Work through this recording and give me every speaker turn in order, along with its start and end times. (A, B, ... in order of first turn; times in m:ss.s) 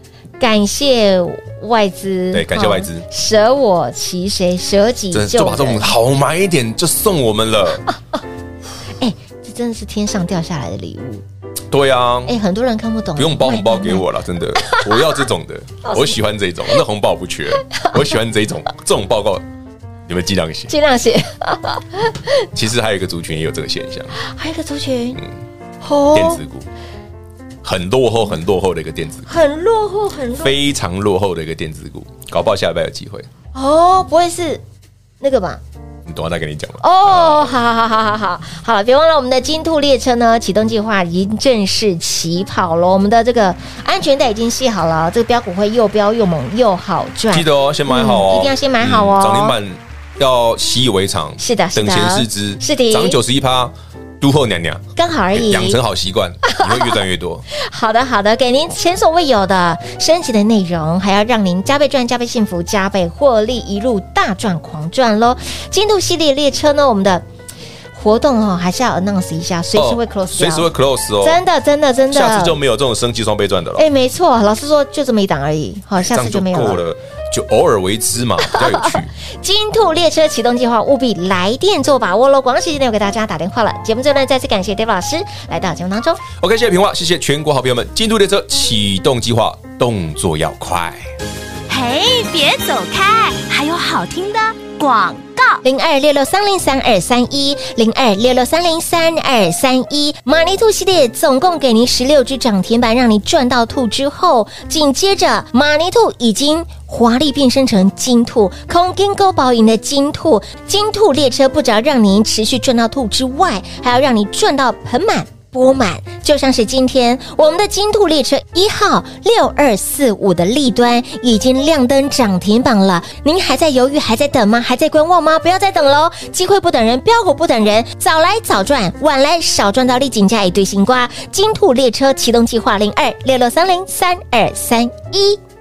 0:00.4-0:05.9 A
0:02.3-0:03.1 B
0:05.1-0:07.8 B
0:09.0-0:11.2 A
0:11.7-0:12.4 B
0:12.3-0:15.2 A
0:13.2-0:19.4 B
0:15.8-0:16.2 A
0:17.7-0:18.0 A
0:20.1-0:20.7 B
0:20.7-0:22.4 A
0:22.5-0:24.1 B
0:24.1-0:25.2 A
0:25.8-0:26.4 A
0:26.1-0:26.7 B
0:27.6-0:29.3 B
0:29.3-0:30.6 A
0:30.4-0:33.3 B
0:33.5-0:34.6 A
0:35.2-0:35.6 A
0:36.1-0:37.6 B
0:36.8-0:49.6 A
0:47.3-0:57.4 B
0:51.4-0:53.2 A
0:55.0-0:55.8 A
0:57.5-1:07.2 A
1:08.0-1:10.7 A
1:09.8-1:11.4 B
1:11.2-1:12.6 A
1:12.1-1:13.9 B
1:13.8-1:16.8 A
1:16.0-1:19.1 B
1:18.5-1:26.2 A
1:26.4-1:31.1 B
1:31.7-1:35.6 C
1:35.6-2:15.4 A